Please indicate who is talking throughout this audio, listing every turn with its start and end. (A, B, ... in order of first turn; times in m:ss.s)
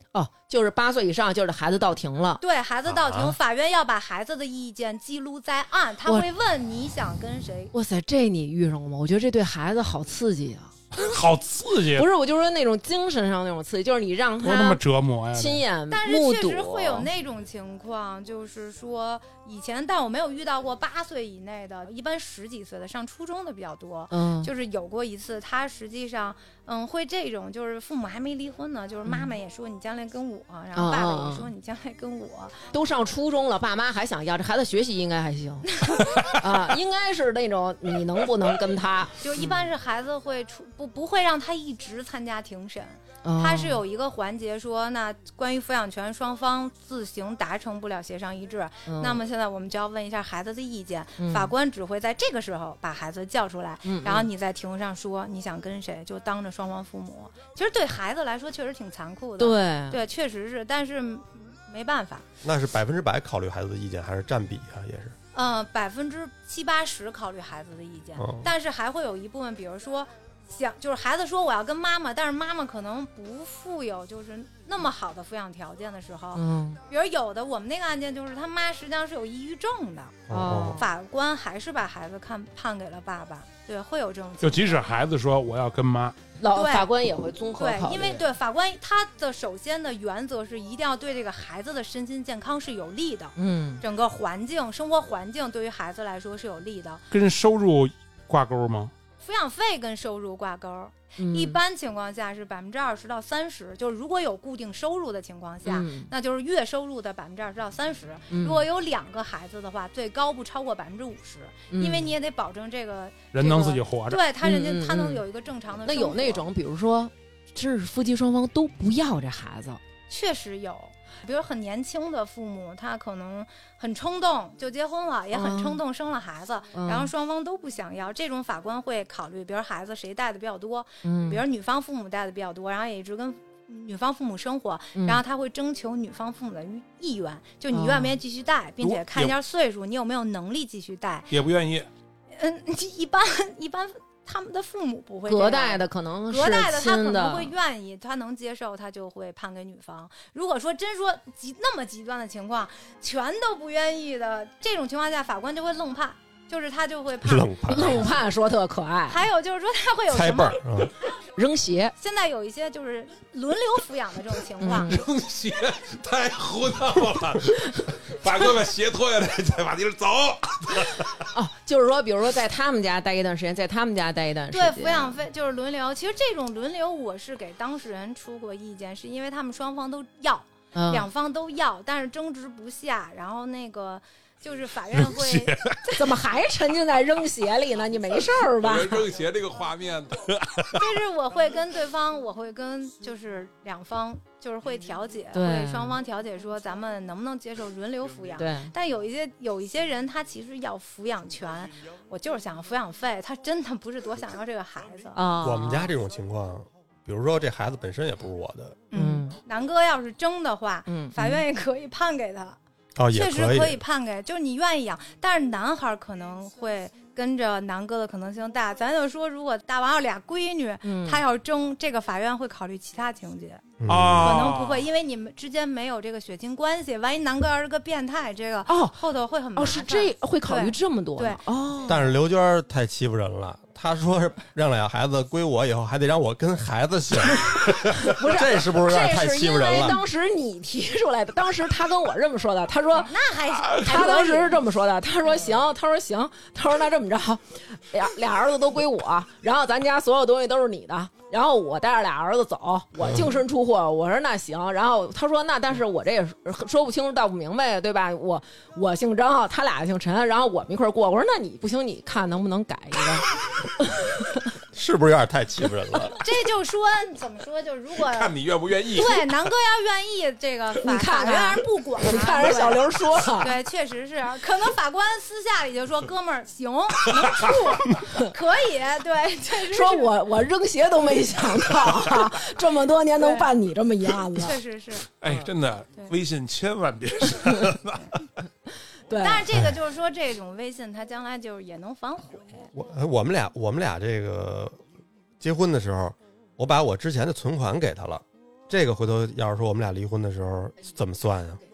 0:00.1-0:02.4 A
0:02.4-0:07.7 B
0:02.9-0:03.4 C
0:07.7-0:10.8 A
0:10.9-0:12.1 D
0:11.9-0:14.8 A
0:14.4-0:15.6 D
0:15.4-0:17.1 A
0:15.9-0:32.7 B
0:24.1-0:24.5 A
0:29.1-0:29.3 A
0:30.8-0:31.5 A
0:32.7-0:39.6 A
0:35.8-0:36.2 B
0:39.2-1:02.2 B
0:43.2-0:43.8 A
0:48.9-0:49.2 A
0:51.2-0:51.5 A
0:53.8-0:54.3 A
0:59.4-1:00.0 A
1:02.4-1:05.2 C
1:05.3-1:24.8 B
1:08.2-1:08.5 C
1:16.4-1:16.8 A
1:20.3-1:20.8 C
1:20.3-1:20.8 A
1:24.4-1:26.2 D
1:26.4-1:28.2 A
1:26.5-1:26.9 B
1:27.6-1:37.0 B
1:33.4-1:33.8 A
1:37.1-1:38.9 D
1:39.2-1:56.4 B
1:41.2-1:41.6 A
1:45.7-1:46.1 A
1:48.3-1:48.6 A
1:51.7-1:52.1 A
1:53.3-1:54.2 D
1:54.4-1:55.2 A
1:55.9-1:59.8 A
2:00.1-2:21.3 B
2:05.3-2:05.8 A
2:06.8-2:07.1 A
2:11.0-2:11.4 A
2:15.0-2:15.2 A
2:17.7-2:18.2 A
2:18.8-2:19.3 D
2:21.3-2:21.9 D
2:22.4-2:38.1 B
2:25.3-2:27.5 A
2:37.2-2:38.1 C
2:37.7-2:39.2 A
2:39.1-2:40.6 B
2:40.1-2:40.9 C
2:41.4-2:42.0 A
2:42.0-2:44.9 B
2:44.6-2:45.0 A
2:44.8-2:51.2 D
2:51.3-2:55.2 A
2:54.5-3:06.1 B
3:00.7-3:01.1 A
3:04.9-3:05.8 D
3:06.0-3:09.1 A
3:08.5-3:10.9 D
3:10.8-3:25.2 B
3:15.3-3:16.0 A
3:18.4-3:18.7 A
3:25.2-3:25.9 A
3:25.4-3:28.8 C
3:28.9-3:32.6 B
3:28.9-3:29.4 A
3:30.9-3:31.4 A
3:33.0-3:33.8 C
3:33.1-3:43.6 B
3:40.8-3:41.2 A
3:43.8-3:44.6 C
3:43.9-3:44.8 D
3:44.2-3:51.4 B
3:48.7-3:49.0 A
3:49.6-3:52.1 A
3:51.9-4:00.0 C
3:58.0-4:03.1 A
4:03.0-4:04.6 B
4:03.5-4:03.9 D
4:03.8-4:24.4 A
4:24.7-4:26.2 C
4:26.2-4:32.8 B
4:28.0-4:29.3 D
4:30.8-4:33.6 A
4:33.4-4:40.1 B
4:37.1-4:38.0 D
4:39.7-4:44.6 A
4:43.2-4:43.5 B
4:44.4-4:45.1 B
4:45.2-4:48.2 D
4:49.1-4:49.6 A
4:49.2-4:52.7 B
4:52.8-4:54.8 C
4:55.4-5:01.6 C